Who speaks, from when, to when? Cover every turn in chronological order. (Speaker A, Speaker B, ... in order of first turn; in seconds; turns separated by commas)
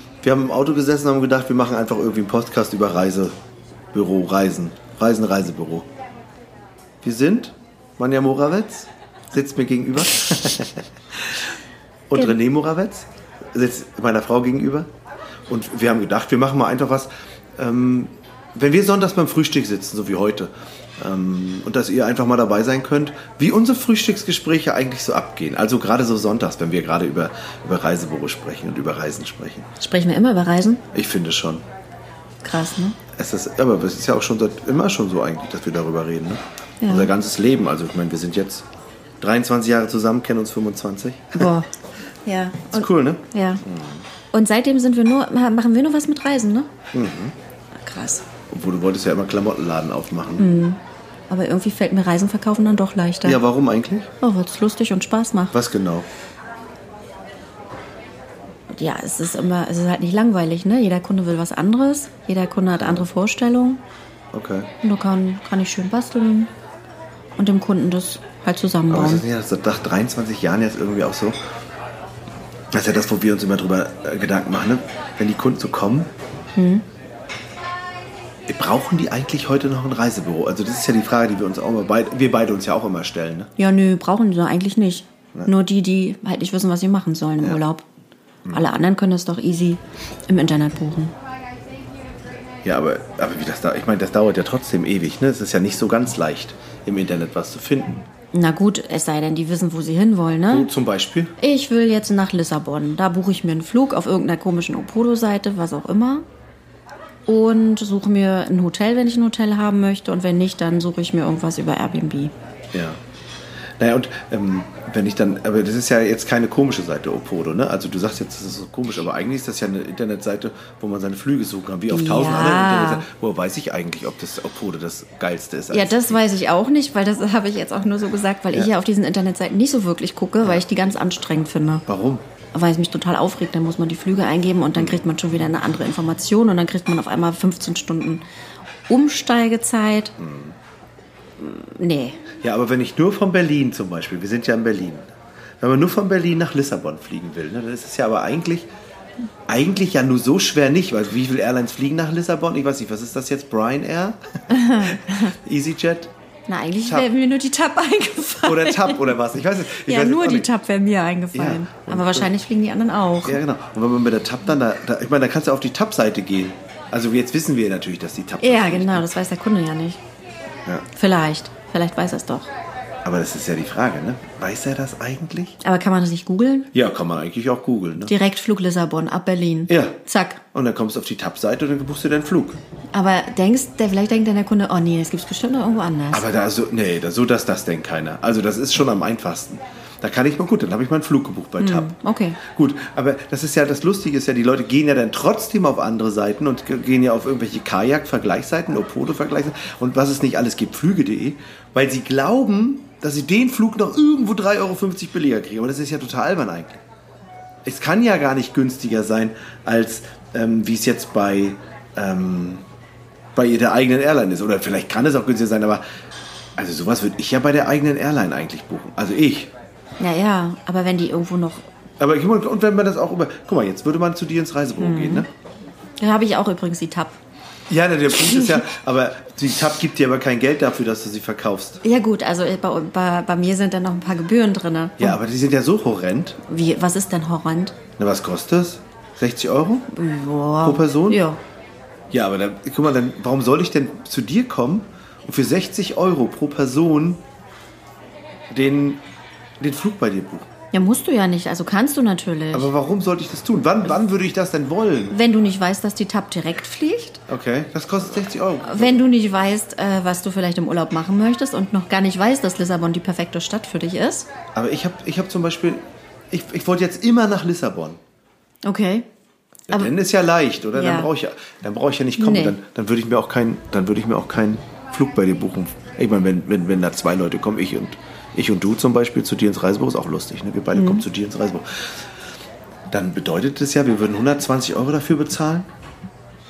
Speaker A: 0.2-3.3, Speaker A: 3.9-5.9, Speaker A: 7.0-11.4, Speaker A: 12.1-14.9, Speaker A: 15.5-29.7, Speaker B: 29.8-30.8, Speaker A: 30.9-31.6, Speaker B: 32.4-33.0, Speaker A: 33.1-38.6, Speaker B: 36.8-37.1, Speaker A: 39.2-41.5, Speaker B: 41.4-41.7, Speaker B: 42.2-43.6, Speaker A: 42.7-44.0, Speaker B: 44.3-46.7, Speaker A: 46.9-47.3, Speaker B: 47.8-48.2, Speaker A: 48.5-50.5, Speaker B: 50.4-53.4, Speaker A: 53.2-54.1, Speaker B: 54.2-55.5, Speaker A: 55.5-56.1, Speaker B: 58.7-63.8, Speaker A: 62.8-63.0, Speaker A: 64.3-64.7, Speaker B: 64.8-66.5, Speaker B: 67.4-69.2, Speaker A: 68.9-71.4, Speaker A: 72.7-76.1, Speaker B: 76.5-76.8, Speaker A: 78.5-83.5, Speaker B: 83.6-87.8, Speaker B: 88.5-91.1, Speaker A: 92.6-98.0, Speaker B: 98.3-100.7, Speaker A: 100.5-101.3, Speaker B: 101.4-106.2, Speaker B: 107.3-112.3, Speaker A: 112.7-113.0, Speaker A: 113.8-126.2, Speaker B: 121.9-123.0, Speaker B: 125.7-131.8, Speaker A: 131.9-132.2, Speaker B: 132.5-138.2, Speaker A: 134.8-135.0, Speaker B: 138.9-140.1, Speaker A: 140.2-140.6, Speaker B: 141.4-142.2, Speaker A: 142.4-145.1, Speaker A: 145.6-148.7, Speaker A: 149.5-156.1, Speaker B: 154.5-155.3, Speaker B: 156.5-159.2, Speaker A: 158.4-160.5, Speaker B: 159.7-163.4, Speaker A: 161.3-162.3, Speaker A: 163.2-169.1, Speaker B: 168.4-170.0, Speaker B: 170.9-172.5, Speaker A: 173.0-175.6, Speaker B: 175.6-176.7, Speaker A: 176.7-178.1, Speaker B: 178.0-180.4, Speaker A: 179.7-180.0, Speaker A: 180.5-182.6, Speaker B: 182.9-186.2, Speaker A: 186.1-206.8, Speaker B: 191.6-192.4, Speaker A: 207.6-212.6, Speaker A: 213.3-215.8, Speaker A: 216.6-219.5, Speaker B: 220.0-221.7, Speaker A: 222.0-225.3, Speaker B: 224.8-225.2, Speaker B: 226.0-227.2, Speaker A: 227.7-231.8, Speaker B: 228.1-228.7, Speaker B: 231.8-235.2, Speaker A: 235.0-236.4, Speaker B: 236.5-237.8, Speaker A: 238.0-239.9, Speaker B: 239.9-241.4, Speaker A: 240.6-241.2, Speaker A: 242.1-247.2, Speaker A: 248.5-249.0, Speaker A: 249.6-250.5, Speaker B: 250.7-252.7, Speaker A: 252.5-255.2, Speaker B: 255.1-257.2, Speaker A: 257.3-259.0, Speaker B: 258.6-264.3, Speaker A: 264.5-268.0, Speaker B: 268.6-269.1, Speaker A: 269.7-281.9, Speaker B: 270.7-271.1, Speaker B: 272.2-272.6, Speaker B: 280.7-281.0, Speaker A: 282.9-285.7